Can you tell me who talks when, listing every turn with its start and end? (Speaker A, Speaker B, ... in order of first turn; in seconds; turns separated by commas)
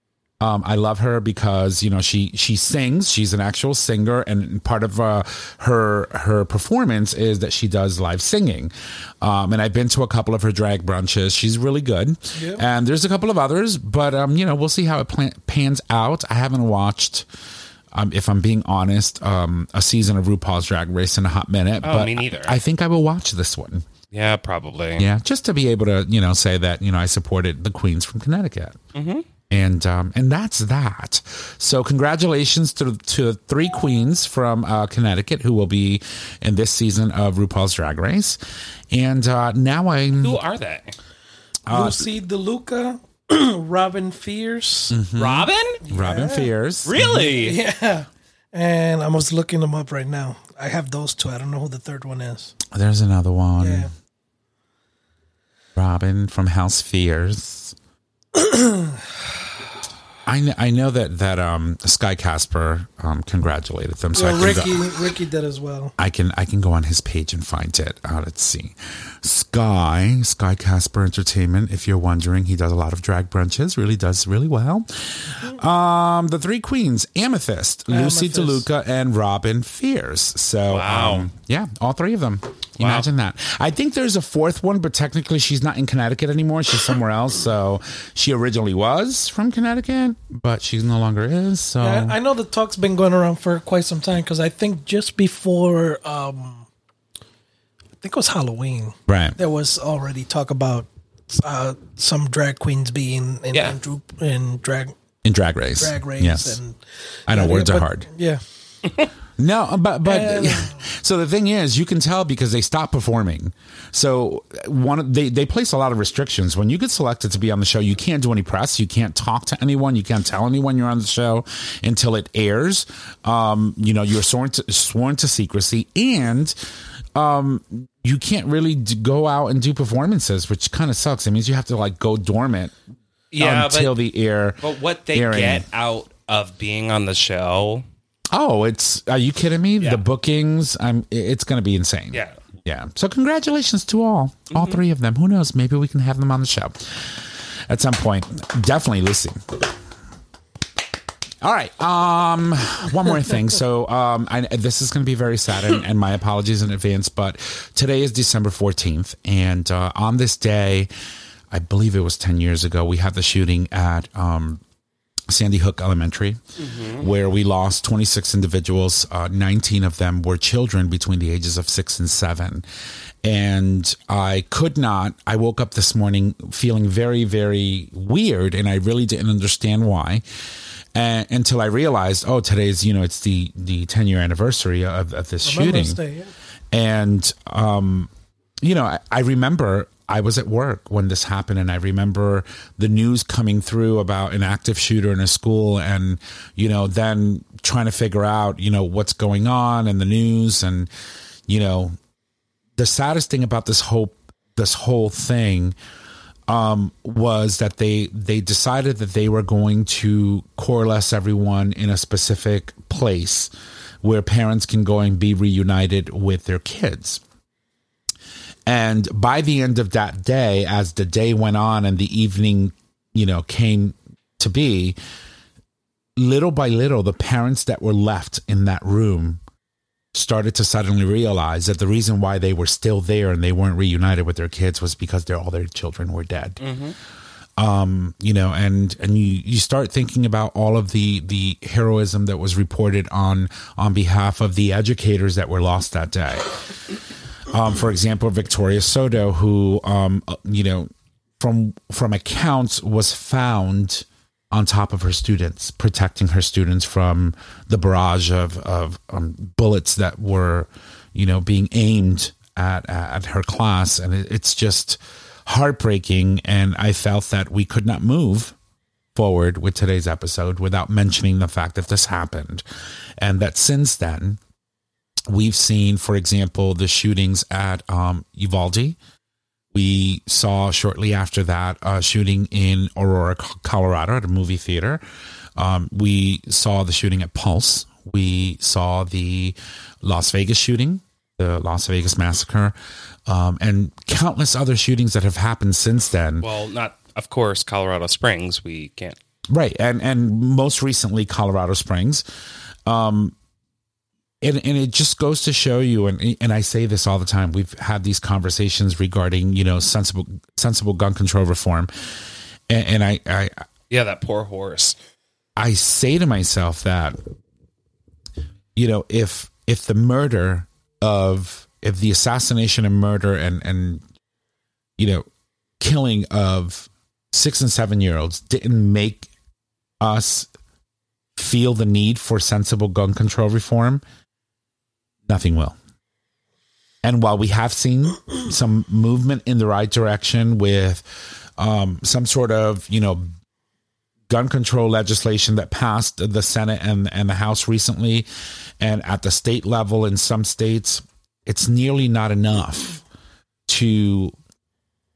Speaker A: 0.4-17.3, Speaker B: 12.3-12.6, Speaker A: 17.9-23.9, Speaker C: 21.8-22.6, Speaker C: 24.1-25.1, Speaker A: 25.0-28.8, Speaker C: 28.9-29.2, Speaker A: 29.5-38.4, Speaker A: 38.9-40.4, Speaker C: 40.2-41.0, Speaker A: 41.7-42.1, Speaker B: 41.7-45.0, Speaker A: 44.9-47.4, Speaker C: 45.2-45.8, Speaker B: 45.8-46.5, Speaker C: 46.9-47.6, Speaker B: 47.0-52.5, Speaker A: 52.7-53.9, Speaker B: 53.6-53.9, Speaker A: 55.8-57.8, Speaker B: 58.4-59.0, Speaker A: 60.2-64.9, Speaker B: 64.1-65.9, Speaker A: 66.0-92.2, Speaker B: 77.9-78.7, Speaker C: 80.7-81.3, Speaker C: 82.8-83.1, Speaker B: 91.8-96.7, Speaker B: 98.0-105.0, Speaker A: 99.1-99.4, Speaker A: 105.2-106.6, Speaker B: 105.8-108.4, Speaker A: 107.3-108.1, Speaker A: 109.4-126.6, Speaker B: 110.0-110.8, Speaker A: 127.2-132.8, Speaker C: 133.3-134.0, Speaker A: 133.4-134.6, Speaker C: 134.6-137.8, Speaker A: 135.1-135.7, Speaker A: 138.3-149.8, Speaker C: 139.8-140.0, Speaker C: 144.5-144.8, Speaker A: 151.4-160.9, Speaker A: 161.5-164.6, Speaker A: 165.3-172.7, Speaker C: 166.6-167.1, Speaker A: 173.2-180.2, Speaker A: 180.9-186.0, Speaker B: 185.4-186.3, Speaker A: 186.7-188.1, Speaker A: 188.6-200.9, Speaker A: 201.5-202.0, Speaker A: 202.8-205.8, Speaker A: 206.5-213.5, Speaker A: 214.0-217.2, Speaker A: 218.7-225.0, Speaker A: 226.2-229.4, Speaker A: 230.1-236.6, Speaker C: 236.6-236.9, Speaker A: 237.6-246.6, Speaker A: 247.5-268.6, Speaker A: 269.2-272.6, Speaker A: 273.2-274.4, Speaker A: 275.3-279.0, Speaker A: 279.7-285.0, Speaker A: 285.6-292.8, Speaker A: 293.3-296.5, Speaker C: 296.4-299.2, Speaker A: 299.5-302.2, Speaker A: 302.9-303.4, Speaker A: 304.4-311.9, Speaker A: 312.7-313.7, Speaker C: 313.9-314.9, Speaker A: 315.6-317.2, Speaker A: 318.8-324.0, Speaker A: 325.0-325.2, Speaker A: 325.8-329.3, Speaker A: 330.0-330.5, Speaker A: 331.4-334.0, Speaker A: 335.3-335.8, Speaker A: 337.0-341.0, Speaker A: 341.6-343.3, Speaker A: 344.3-348.3, Speaker A: 348.8-353.0, Speaker A: 353.7-354.4